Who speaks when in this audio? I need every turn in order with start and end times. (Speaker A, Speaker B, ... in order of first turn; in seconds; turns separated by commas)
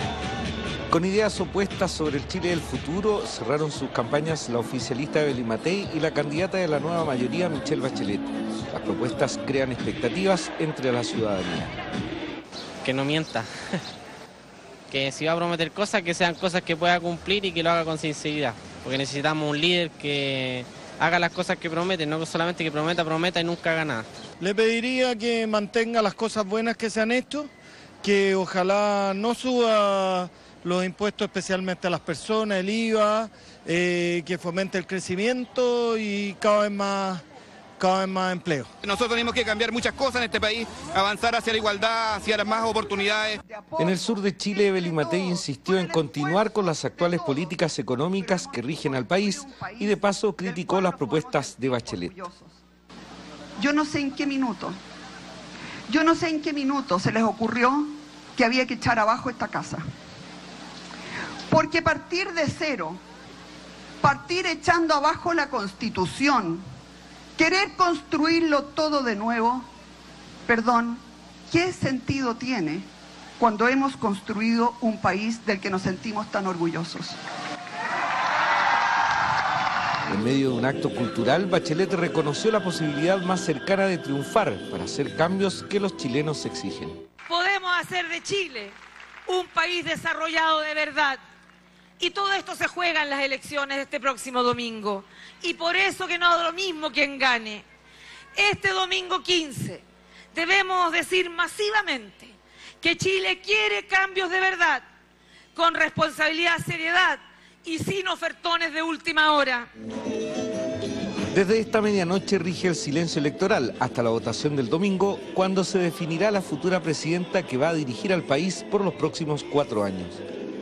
Speaker A: 0.9-11.7, Speaker B: 12.8-13.5, Speaker B: 14.9-24.1, Speaker C: 24.4-27.5, Speaker C: 28.0-37.2, Speaker C: 37.8-38.7, Speaker D: 38.8-43.4, Speaker E: 43.4-47.5, Speaker A: 43.8-52.1, Speaker E: 48.1-52.6, Speaker E: 53.6-54.8, Speaker E: 55.9-59.8, Speaker E: 61.5-63.0, Speaker E: 64.0-66.6, Speaker E: 67.3-69.7, Speaker E: 70.5-72.9, Speaker E: 73.4-77.2, Speaker A: 80.1-87.0, Speaker F: 87.3-88.8, Speaker F: 89.3-91.2, Speaker F: 92.0-97.6, Speaker F: 98.3-104.8, Speaker F: 105.5-109.7, Speaker A: 111.3-120.2